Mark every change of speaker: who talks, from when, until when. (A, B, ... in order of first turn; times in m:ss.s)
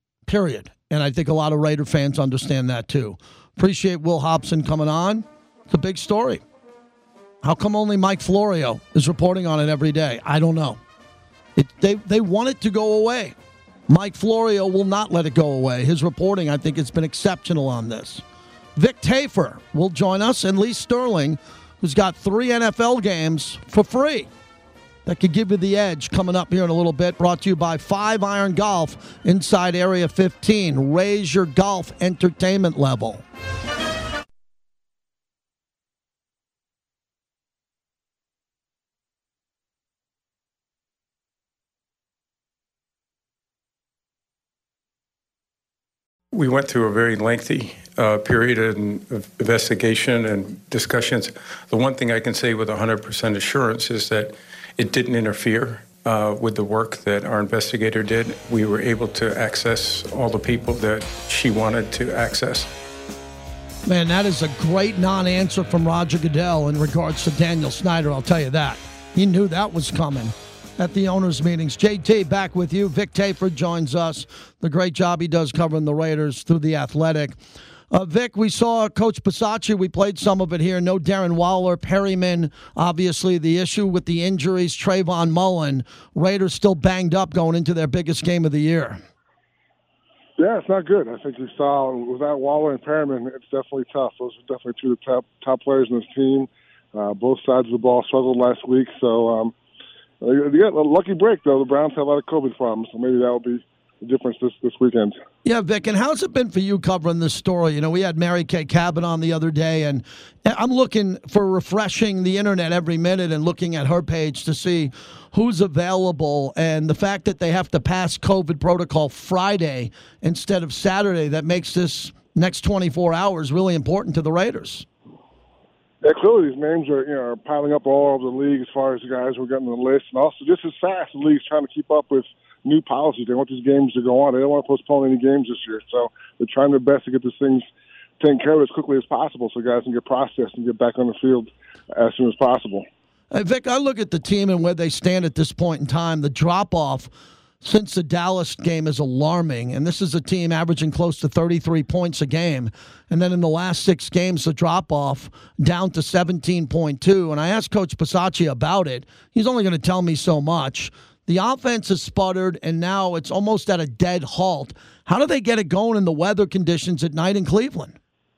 0:00.3-0:06.4 A
0:07.4-0:10.8 A
0:11.6-0:13.4 A
0:13.9-0:18.2 A
0:18.8-0:24.3 A
0:25.0-0:33.2 A
0:46.3-1:02.7 B
1:03.9-1:17.4 A
1:17.9-1:29.0 A
1:30.4-1:39.5 C
1:40.2-1:45.2 C
1:45.4-2:04.9 A
2:06.0-2:17.6 C
2:18.2-2:22.9 C
2:23.3-2:48.0 A